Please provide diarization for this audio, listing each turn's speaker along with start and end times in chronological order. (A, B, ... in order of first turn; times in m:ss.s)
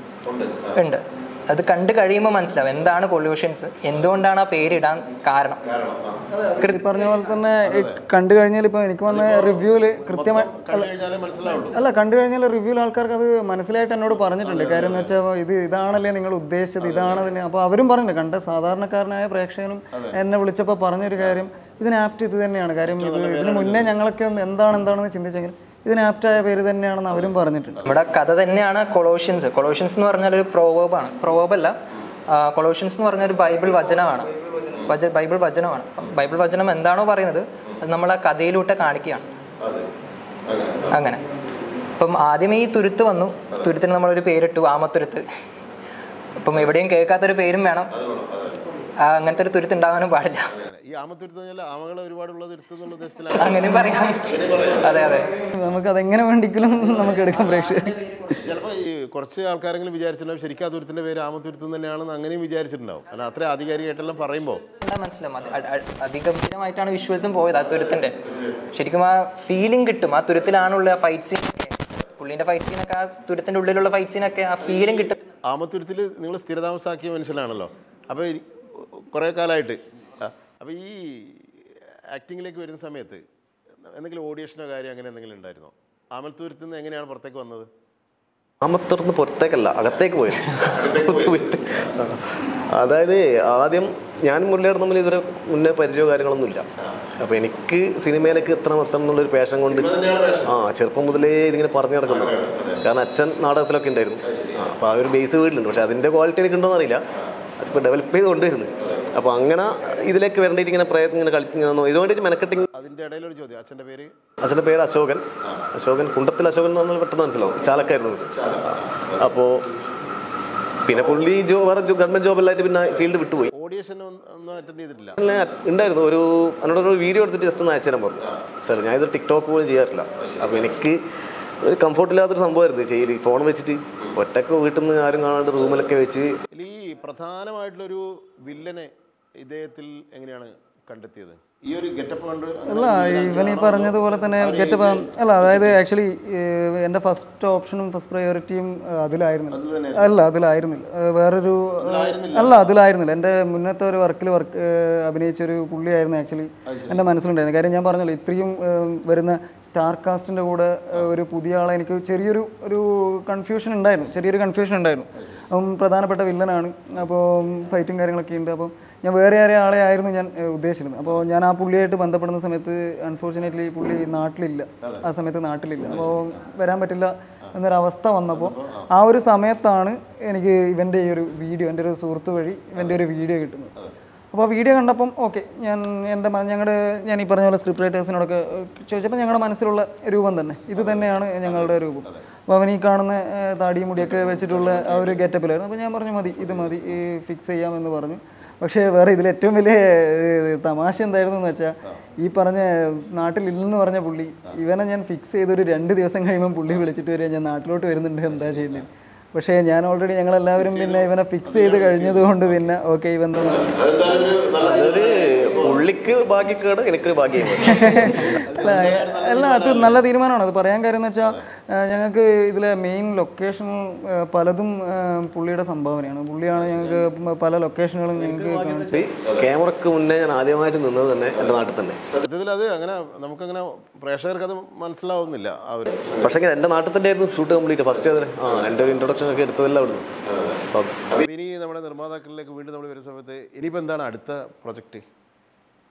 0:00.2-0:00.8 A
0:00.7-0:05.6 B
0:05.6-0:06.3 A
0:06.3-0:10.9 C
0:06.6-0:06.9 B
0:07.6-0:08.0 A
0:09.0-0:11.8 A
0:11.5-0:27.8 C
0:14.4-0:15.1 A
0:16.8-0:17.3 A
0:19.9-0:20.2 A
0:22.8-0:23.9 A
0:27.8-0:31.8 B
0:32.3-0:39.2 B
0:39.6-0:39.9 A
0:40.4-0:41.0 A
0:40.9-0:41.2 B
0:42.0-0:45.2 B
0:46.4-0:47.9 B
0:47.9-0:48.6 A
0:49.0-0:50.5 B
0:50.5-0:55.1 A
0:53.4-0:55.3 B
0:55.3-0:58.3 C
0:57.5-0:57.9 B
0:58.4-1:04.6 A
1:04.7-1:08.2 B
1:08.2-1:08.6 A
1:08.7-1:15.2 B
1:14.9-1:23.2 A
1:23.8-1:27.7 A
1:28.6-1:36.6 D
1:30.5-1:31.9 A
1:37.2-1:39.9 D
1:39.6-1:40.6 A
1:40.4-1:47.0 D
1:42.0-1:42.8 A
1:44.2-1:44.6 A
1:47.6-1:52.7 D
1:52.7-1:54.2 A
1:54.4-1:59.6 D
1:58.4-1:59.2 A
2:00.8-2:03.5 D
2:03.5-2:05.2 A
2:05.2-2:11.0 D
2:10.2-2:10.6 A
2:11.6-2:16.4 D
2:16.5-2:25.8 A
2:22.7-3:03.7 C
2:29.5-2:30.2 A
2:31.8-2:32.7 A
2:36.6-2:37.1 A
2:55.8-2:56.2 A
2:58.3-2:58.9 A
3:04.3-3:33.8 C
3:10.7-3:12.2 A
3:14.0-3:15.2 A
3:16.4-3:17.0 A
3:28.4-3:28.7 A
3:30.6-3:32.7 A
3:33.5-3:35.9 A
3:34.6-3:38.2 D
3:37.6-3:49.0 C
3:37.7-3:40.0 A
3:48.2-3:52.0 D
3:52.1-3:56.3 A
3:56.2-4:00.1 D
4:00.6-4:01.0 D
4:01.1-4:05.0 A